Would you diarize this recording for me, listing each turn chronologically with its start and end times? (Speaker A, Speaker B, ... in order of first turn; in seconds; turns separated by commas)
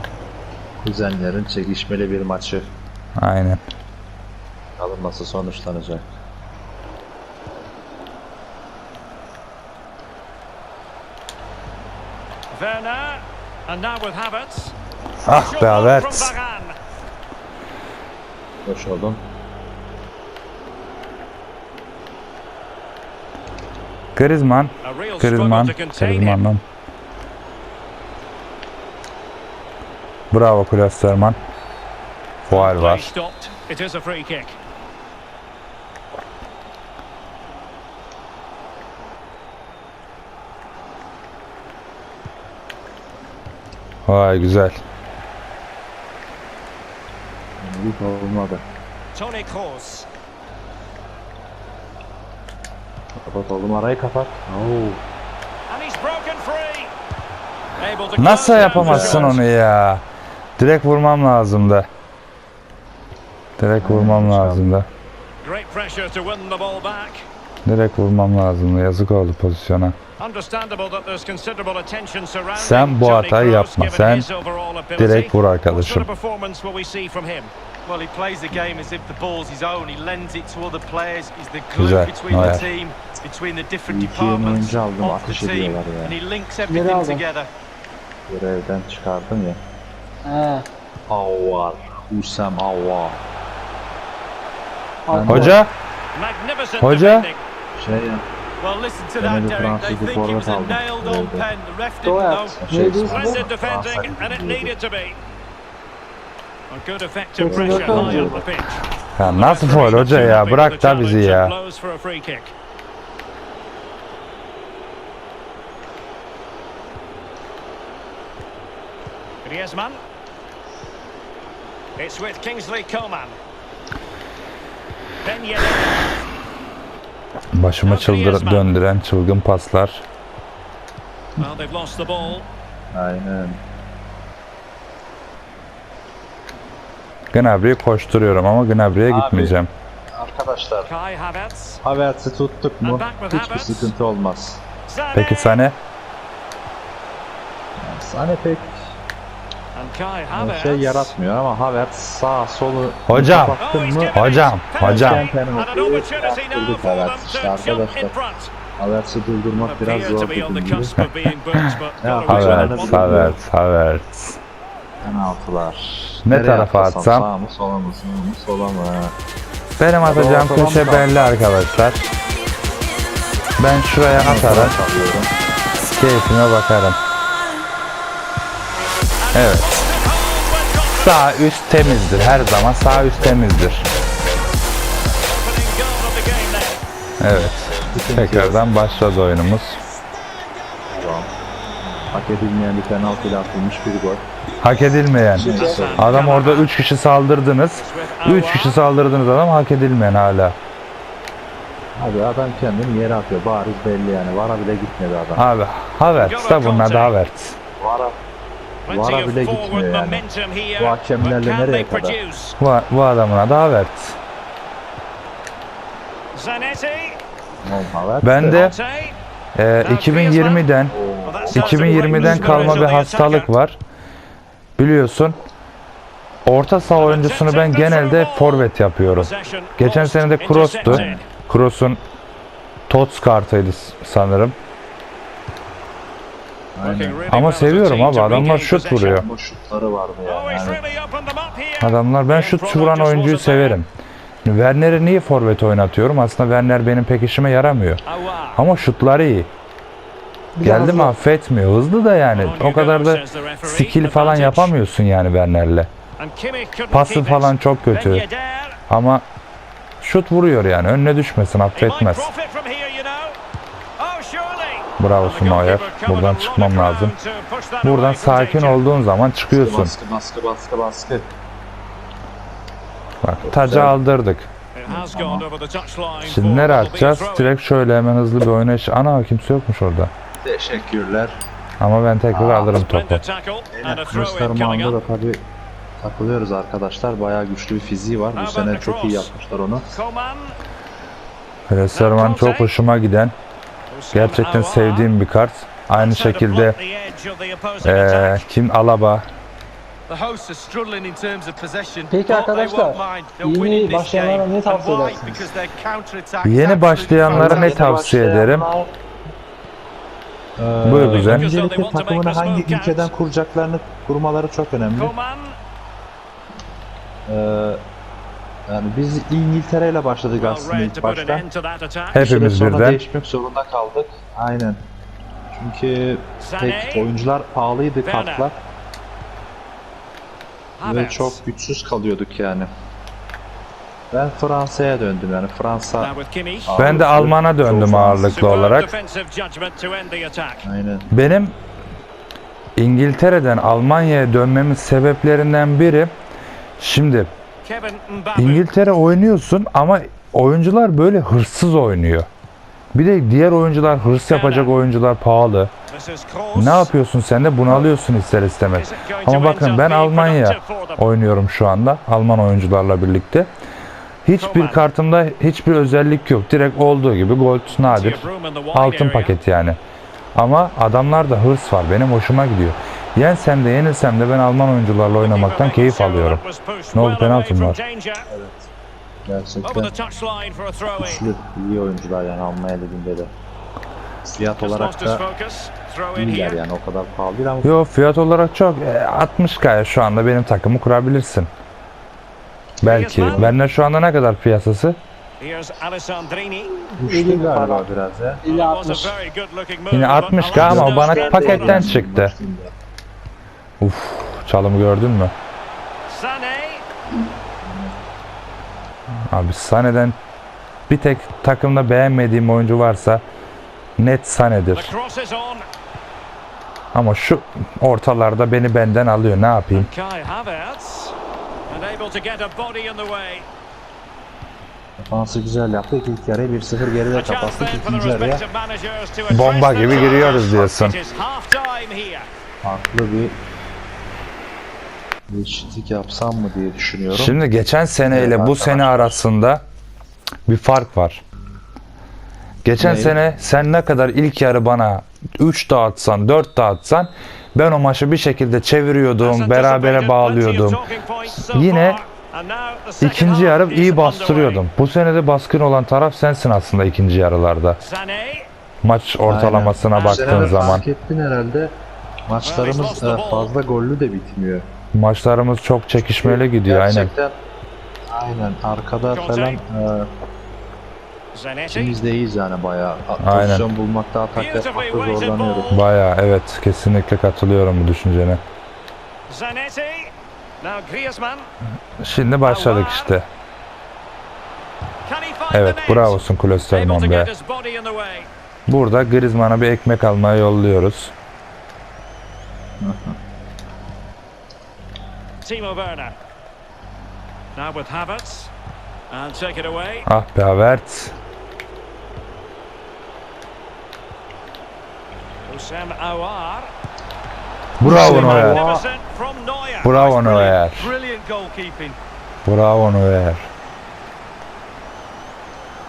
Speaker A: 0.8-2.7, Speaker B: 3.2-3.6, Speaker A: 4.8-6.1, Speaker C: 12.5-14.7, Speaker B: 15.2-16.3, Speaker C: 15.3-16.8, Speaker A: 18.6-19.2, Speaker B: 24.1-26.6, Speaker C: 24.8-26.4, Speaker B: 30.3-31.4, Speaker B: 32.4-33.1, Speaker C: 32.5-34.6, Speaker B: 44.0-44.8, Speaker A: 47.6-48.6, Speaker C: 49.1-50.1, Speaker A: 53.2-55.0, Speaker C: 55.7-56.9, Speaker C: 57.8-59.4, Speaker B: 58.2-60.0, Speaker A: 58.5-59.4, Speaker B: 60.6-61.9, Speaker B: 63.6-64.9, Speaker A: 63.8-64.7, Speaker C: 65.4-67.3, Speaker B: 67.7-70.0, Speaker C: 70.2-77.5, Speaker B: 72.5-74.3, Speaker B: 75.0-76.1, Speaker D: 77.8-87.5, Speaker B: 81.7-82.7, Speaker A: 82.3-82.6, Speaker A: 83.9-86.2, Speaker E: 86.7-87.2, Speaker A: 88.3-89.6, Speaker E: 90.2-90.6, Speaker A: 91.1-93.2, Speaker E: 95.0-95.6, Speaker A: 95.1-95.6, Speaker B: 95.3-95.7, Speaker C: 96.1-97.4, Speaker B: 96.8-97.3, Speaker A: 97.7-98.2, Speaker D: 98.6-102.6, Speaker A: 99.2-101.5, Speaker E: 102.0-103.5, Speaker A: 102.5-104.7, Speaker C: 103.0-105.2, Speaker C: 106.7-112.5, Speaker E: 107.4-108.4, Speaker A: 107.5-108.4, Speaker B: 109.2-111.5, Speaker A: 110.0-110.4, Speaker C: 119.4-120.0, Speaker C: 122.0-123.4, Speaker C: 125.2-126.1, Speaker B: 127.5-130.0, Speaker C: 127.8-128.8, Speaker C: 131.4-132.5, Speaker A: 132.9-133.6, Speaker B: 137.3-139.7, Speaker A: 139.1-139.6, Speaker A: 140.1-140.9, Speaker C: 140.8-141.8, Speaker A: 141.8-144.6, Speaker C: 142.8-143.9, Speaker C: 144.9-145.6, Speaker B: 145.1-145.8, Speaker A: 147.8-148.8, Speaker C: 149.7-151.1, Speaker A: 150.3-158.1, Speaker B: 153.1-153.6, Speaker C: 153.6-158.5, Speaker B: 154.1-155.3, Speaker A: 158.8-161.0, Speaker C: 159.6-163.3, Speaker B: 161.0-161.6, Speaker A: 162.0-163.3, Speaker B: 162.2-164.4, Speaker A: 165.0-169.1, Speaker B: 166.2-167.3, Speaker B: 169.8-172.1, Speaker A: 170.0-171.4, Speaker B: 173.6-174.8, Speaker A: 174.1-175.3, Speaker B: 175.9-177.0, Speaker C: 179.2-181.1, Speaker B: 179.3-179.7, Speaker B: 181.0-183.9, Speaker C: 185.2-186.8, Speaker B: 187.2-189.8, Speaker A: 187.9-188.6, Speaker A: 190.9-191.3, Speaker A: 191.9-194.2, Speaker B: 194.6-200.6, Speaker A: 195.3-196.2, Speaker E: 195.4-195.9, Speaker C: 195.4-196.7, Speaker C: 197.7-198.8, Speaker A: 202.0-205.4, Speaker B: 205.3-207.6, Speaker C: 206.1-207.1, Speaker A: 207.8-208.2, Speaker C: 208.8-212.6, Speaker A: 208.9-210.2, Speaker A: 210.8-212.2, Speaker B: 212.6-214.2, Speaker C: 216.3-217.2, Speaker A: 217.6-218.7, Speaker B: 218.2-218.8, Speaker C: 218.5-219.2, Speaker B: 219.5-220.9, Speaker C: 219.8-220.7, Speaker A: 220.9-222.9, Speaker C: 221.2-223.5, Speaker B: 221.5-223.8, Speaker B: 224.8-225.4, Speaker B: 226.4-232.0, Speaker C: 227.0-231.2, Speaker A: 230.8-231.2, Speaker B: 232.9-234.6, Speaker A: 236.8-237.2, Speaker C: 236.8-239.2, Speaker B: 237.3-239.3, Speaker A: 238.5-240.8, Speaker C: 240.2-243.8, Speaker B: 241.8-243.9, Speaker B: 244.4-248.0, Speaker C: 248.0-248.6, Speaker B: 248.5-249.5, Speaker E: 250.5-251.1, Speaker B: 250.6-255.9, Speaker C: 252.3-254.7, Speaker C: 256.2-258.8, Speaker B: 256.9-258.2, Speaker B: 258.9-259.2, Speaker B: 260.0-262.3, Speaker C: 261.7-263.4, Speaker C: 264.0-268.8, Speaker B: 265.0-267.1, Speaker B: 267.8-269.9, Speaker A: 269.5-271.3, Speaker B: 273.2-274.5, Speaker A: 273.4-273.9, Speaker C: 274.7-277.5, Speaker A: 274.9-275.4, Speaker B: 276.2-280.1, Speaker A: 280.4-281.4, Speaker B: 281.8-283.2, Speaker A: 282.3-282.7, Speaker C: 282.8-285.0, Speaker A: 283.7-285.4, Speaker A: 286.0-289.9, Speaker C: 288.4-289.3, Speaker C: 289.9-290.6, Speaker B: 291.7-293.3, Speaker C: 291.9-292.7, Speaker C: 293.9-295.1, Speaker B: 294.1-296.8, Speaker C: 295.9-298.4, Speaker B: 297.8-299.2, Speaker D: 300.1-307.8, Speaker E: 302.1-305.5, Speaker B: 306.4-308.7, Speaker A: 307.3-308.9, Speaker A: 310.6-315.1, Speaker B: 310.8-311.5, Speaker C: 310.9-313.1, Speaker C: 314.9-315.6, Speaker A: 317.3-317.8, Speaker A: 318.7-321.4, Speaker C: 320.4-322.2, Speaker B: 322.1-323.0, Speaker A: 322.1-324.8, Speaker A: 325.5-328.6, Speaker C: 326.4-327.1, Speaker C: 328.0-328.5, Speaker C: 330.8-331.4, Speaker A: 330.8-332.7, Speaker A: 334.1-336.1, Speaker C: 336.0-336.7, Speaker A: 336.6-338.3, Speaker B: 336.8-338.9, Speaker C: 338.2-340.6, Speaker A: 340.6-341.1, Speaker B: 341.1-341.6, Speaker B: 342.8-346.1, Speaker B: 346.8-347.3, Speaker C: 347.6-348.7, Speaker B: 348.4-352.3, Speaker B: 352.9-355.7, Speaker C: 354.3-354.7, Speaker C: 355.9-356.9, Speaker B: 356.6-363.5, Speaker C: 358.7-361.1, Speaker B: 364.2-369.8, Speaker C: 364.4-364.9, Speaker C: 367.7-369.4, Speaker B: 370.3-376.4, Speaker C: 375.1-378.3, Speaker B: 376.9-377.8, Speaker A: 378.3-378.7, Speaker A: 379.2-379.9, Speaker C: 379.6-381.3, Speaker A: 381.0-383.3, Speaker A: 384.2-385.2, Speaker C: 384.6-386.6, Speaker A: 386.1-387.7, Speaker B: 387.6-391.5, Speaker B: 392.8-395.0, Speaker C: 392.8-393.5, Speaker A: 393.2-393.6, Speaker C: 395.4-396.8, Speaker E: 396.9-397.9, Speaker A: 397.0-398.4, Speaker E: 398.4-399.1, Speaker C: 398.4-401.8, Speaker B: 399.9-402.3, Speaker A: 400.5-402.7, Speaker E: 401.0-401.8, Speaker B: 403.8-405.3, Speaker C: 406.1-406.8, Speaker A: 407.6-407.9, Speaker B: 409.3-410.2, Speaker B: 410.9-413.2, Speaker B: 414.0-414.9, Speaker C: 414.7-415.6, Speaker B: 416.9-419.9, Speaker C: 419.7-421.1, Speaker C: 421.7-423.4, Speaker A: 425.0-428.4, Speaker C: 427.1-432.3, Speaker B: 429.3-431.0, Speaker A: 432.6-433.3, Speaker A: 435.3-437.4, Speaker B: 437.1-439.6, Speaker A: 438.1-439.2, Speaker B: 440.5-441.2, Speaker B: 442.6-452.0, Speaker A: 442.8-443.1, Speaker C: 449.2-454.6, Speaker B: 453.0-457.8, Speaker C: 457.8-458.5, Speaker B: 458.8-460.9, Speaker A: 459.2-464.6, Speaker C: 459.9-460.8, Speaker C: 462.4-463.5, Speaker B: 464.9-467.1, Speaker A: 466.2-467.4, Speaker A: 468.1-470.1, Speaker C: 469.1-469.6, Speaker C: 471.3-472.0, Speaker A: 471.7-475.7, Speaker B: 473.2-473.7, Speaker C: 474.3-475.8, Speaker B: 475.7-478.4, Speaker C: 479.3-481.5, Speaker B: 482.0-483.3, Speaker C: 482.4-483.1, Speaker C: 485.0-488.3, Speaker B: 485.5-487.3, Speaker B: 488.7-491.1, Speaker A: 492.8-493.1, Speaker C: 495.4-496.1, Speaker C: 497.5-498.5, Speaker C: 499.1-500.1, Speaker B: 500.1-501.1, Speaker C: 505.4-506.7, Speaker B: 507.8-508.6, Speaker A: 507.8-508.9, Speaker C: 507.9-510.6, Speaker B: 509.8-510.9, Speaker D: 510.7-512.0, Speaker B: 512.4-513.5